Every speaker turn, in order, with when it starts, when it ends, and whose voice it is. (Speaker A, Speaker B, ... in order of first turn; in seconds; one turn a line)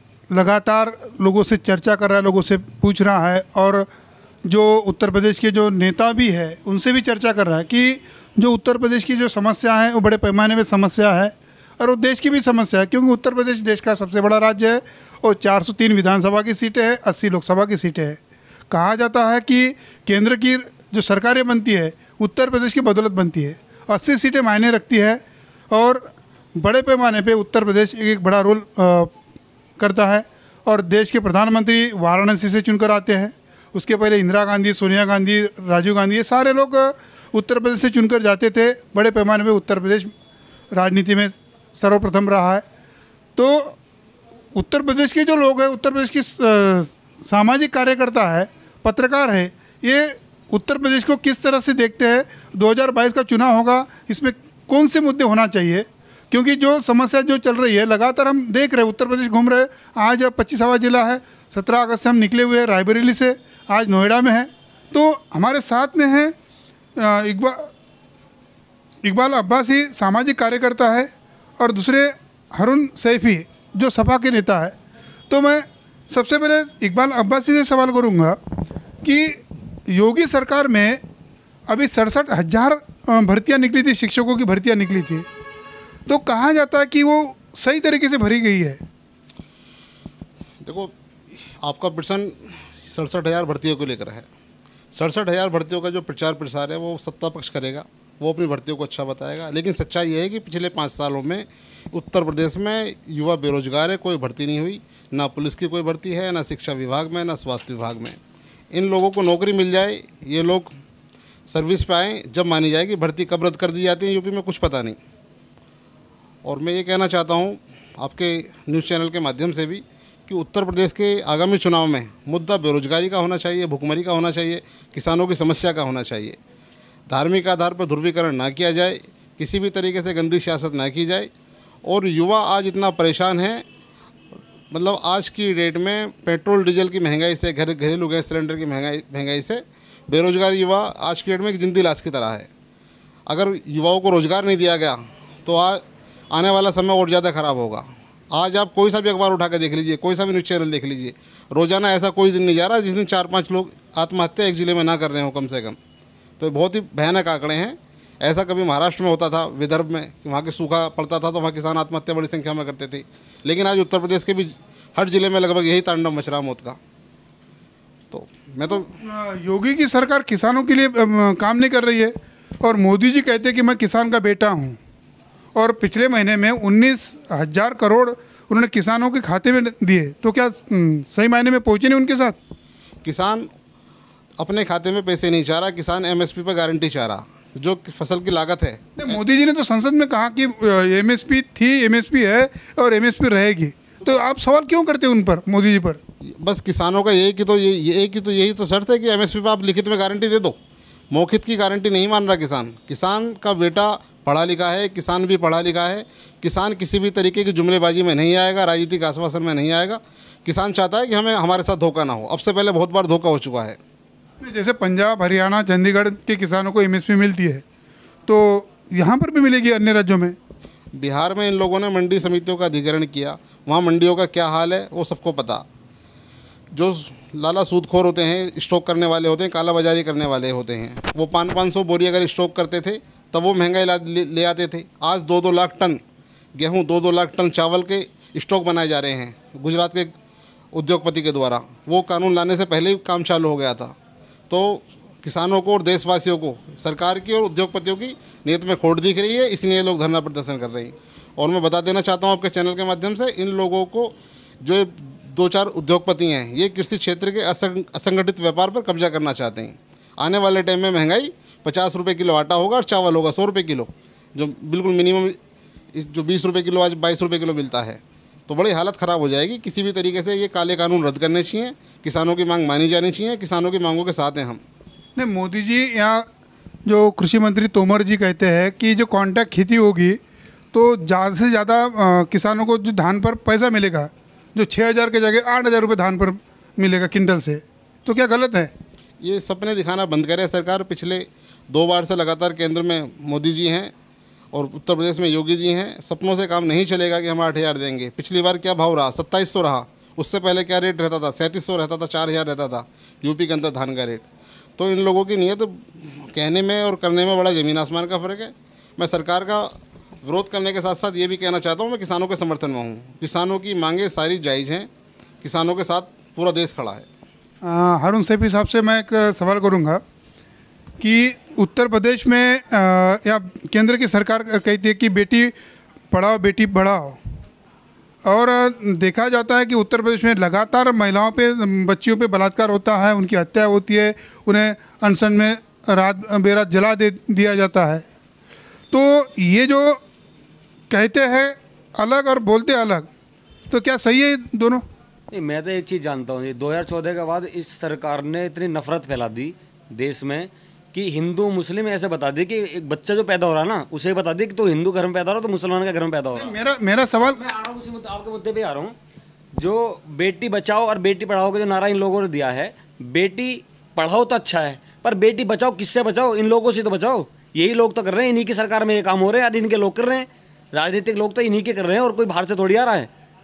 Speaker A: 0.3-3.9
Speaker A: 4.5-18.2
Speaker A: 18.7-29.1
Speaker A: 29.8-40.1
Speaker A: 40.7-42.6
Speaker A: 43.4-43.8
Speaker A: 44.5-66.3
Speaker A: 67.0-67.7
Speaker A: 69.0-74.8
Speaker A: 75.3-78.4
Speaker A: 79.0-81.0
Speaker A: 81.7-85.2
Speaker A: 86.1-88.8
Speaker B: 90.6-94.3
Speaker B: 94.9-108.2
Speaker B: 108.7-110.7
Speaker B: 111.5-115.0
Speaker B: 116.4-126.4
Speaker B: 127.1-131.3
Speaker B: 131.8-133.6
Speaker B: 134.7-142.5
Speaker B: 143.3-155.8
Speaker B: 156.4-166.8
Speaker B: 168.1-168.9
Speaker A: 168.7-174.8
Speaker A: 175.5-182.4
Speaker B: 183.0-183.5
Speaker B: 184.4-188.8
Speaker A: 189.0-196.0
Speaker B: 196.2-200.6
Speaker B: 201.1-213.8
Speaker A: 214.4-217.6
Speaker A: 218.3-220.3
Speaker B: 220.9-225.7
Speaker B: 226.7-236.0
Speaker B: 236.6-240.1
Speaker B: 240.7-243.9
Speaker B: 244.5-265.4
Speaker B: 265.9-274.6
Speaker A: 275.1-276.2
Speaker A: 276.9-280.2
Speaker A: 280.7-288.7
Speaker B: 289.2-293.9
Speaker B: 294.5-304.2
Speaker B: 304.8-314.9
Speaker B: 315.4-317.1
Speaker A: 317.6-320.0
Speaker A: 321.0-325.5
Speaker A: 326.1-327.2
Speaker A: 328.2-338.0
Speaker A: 338.9-340.0
Speaker A: 340.9-343.1
Speaker A: 343.7-344.8
Speaker C: 345.3-356.5
Speaker A: 356.3-357.4
Speaker C: 357.3-358.9
Speaker C: 359.6-373.1